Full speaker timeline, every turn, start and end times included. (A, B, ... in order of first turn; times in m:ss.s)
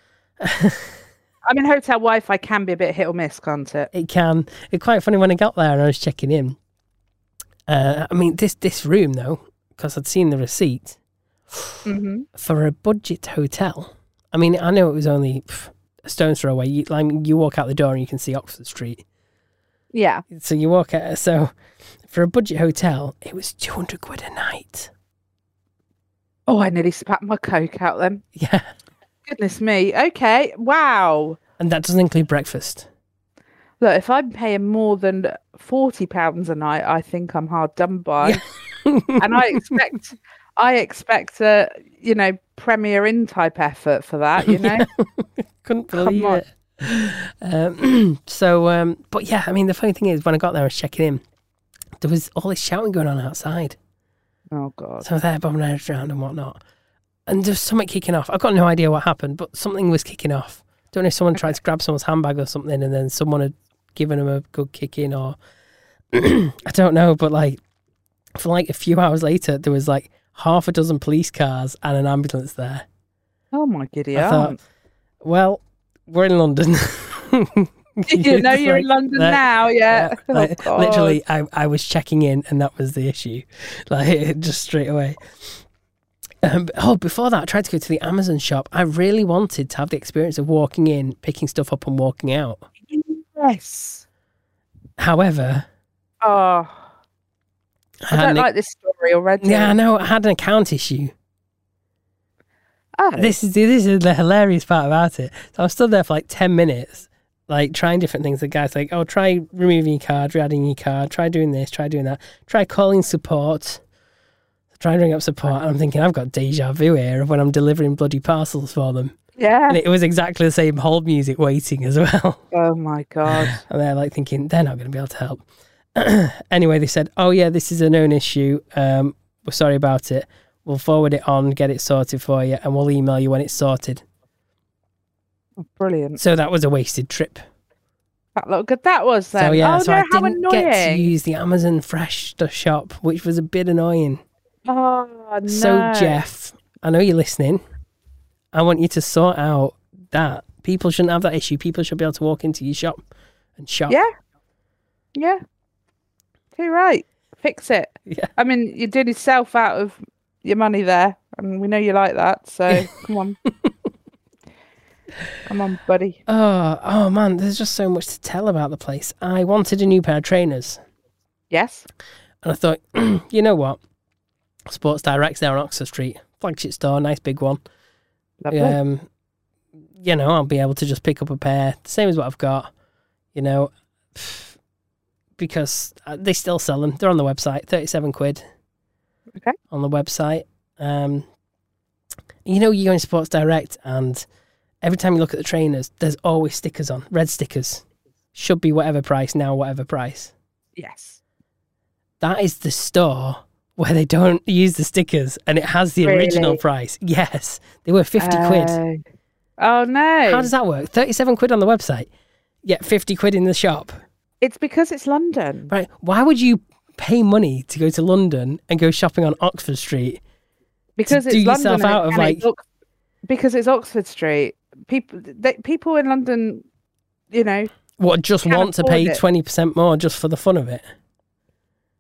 0:00.4-0:00.9 A
0:01.5-0:03.9 B
0:03.9-0:06.6 A
0:07.7-0:11.0 A
0:11.9-0:12.3 B
0:12.4-0:19.0 A
0:19.9-0:20.2 B
0:20.3-0:21.5 A
0:22.1-0:24.9 A
0:26.5-0:28.2 B
0:28.4-0:28.7 A
0:29.3-0:31.4 B
0:31.6-0:32.9 A
0:33.8-0:38.4 B
0:38.2-0:39.8 A
0:39.2-0:44.9 B
0:44.4-0:51.2 A
0:45.9-0:46.4 B
0:52.0-0:53.8 A
0:54.5-0:55.1 B
0:55.0-0:56.6 A
0:57.3-1:05.4 A
1:06.1-1:07.6 A
1:08.4-1:12.9 A
1:13.5-1:14.6 B
1:14.2-1:14.6 A
1:15.2-1:25.6 A
1:18.1-1:21.2 B
1:26.4-1:32.7 A
1:32.9-1:34.0 B
1:35.0-1:35.7 A
1:36.2-1:36.9 B
1:38.0-1:38.5 A
1:38.1-1:39.8 B
1:39.4-1:41.1 A
1:43.0-1:43.4 B
1:43.2-1:53.8 A
1:54.8-1:59.2 A
1:59.4-1:59.8 B
1:59.7-2:02.4 A
2:02.5-2:03.6 B
2:03.3-2:05.4 A
2:06.0-2:14.0 A
2:15.6-2:16.2 B
2:16.2-2:17.4 A
2:18.4-2:21.1 B
2:19.4-2:24.2 A
2:24.7-2:26.2 B
2:25.5-2:27.6 A
2:28.5-2:33.0 A
2:33.6-2:34.0 A
2:35.2-2:35.4 B
2:36.6-2:43.4 B
2:45.5-2:46.2 B
2:46.3-2:50.8 A
2:51.5-2:51.9 B
2:52.4-2:53.8 A
2:54.7-2:57.6 A
2:58.4-2:58.8 B
2:58.5-2:59.1 A
3:00.0-3:02.7 A
3:03.3-3:04.6 A
3:05.4-3:08.4 A
3:09.7-3:11.3 A
3:12.4-3:14.2 A
3:14.8-3:17.8 A
3:18.4-3:20.3 A
3:20.8-3:21.2 B
3:22.2-3:28.8 A
3:26.0-3:26.6 B
3:28.2-3:29.0 B
3:29.6-3:30.5 B
3:30.3-3:32.1 A
3:32.6-3:34.0 A
3:34.4-3:35.7 B
3:35.7-3:40.2 A
3:41.0-3:42.6 B
3:41.1-3:42.4 A
3:43.3-3:46.7 B
3:47.3-3:47.7 B
3:48.0-3:50.8 A
3:48.4-3:49.2 B